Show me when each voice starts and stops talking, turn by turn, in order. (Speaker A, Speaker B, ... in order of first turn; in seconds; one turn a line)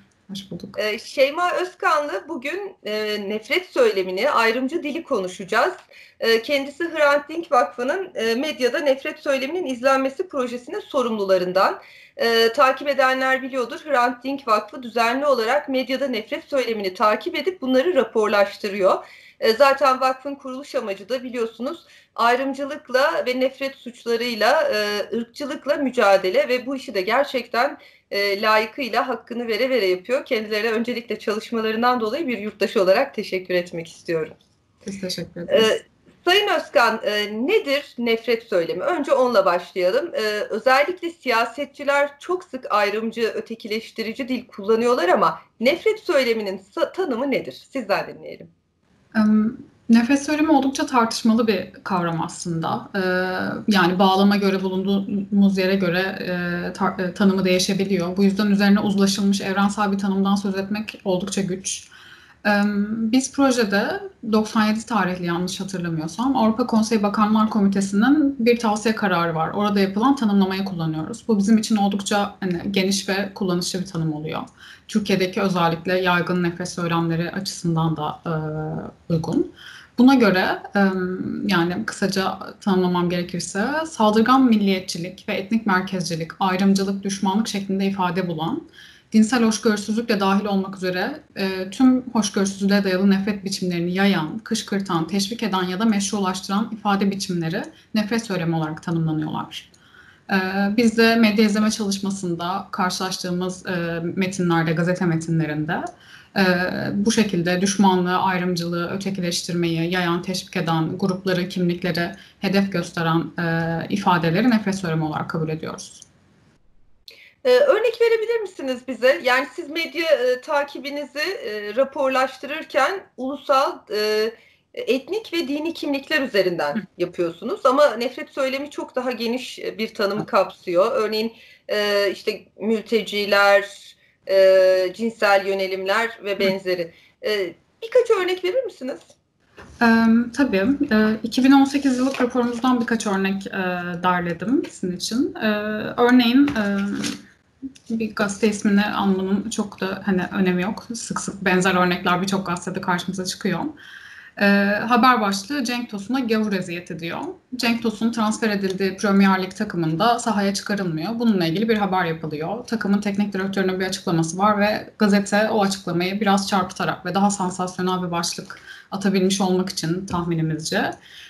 Speaker A: 0.3-0.8
Speaker B: 0.8-34.4
Speaker A: 34.9-35.7
Speaker B: 35.5-48.5
Speaker A: 49.1-61.9
Speaker A: 62.4-99.7
Speaker A: 100.3-116.0
Speaker B: 117.4-139.1
Speaker A: 139.8-147.2
Speaker A: 147.9-153.7
Speaker A: 154.4-170.9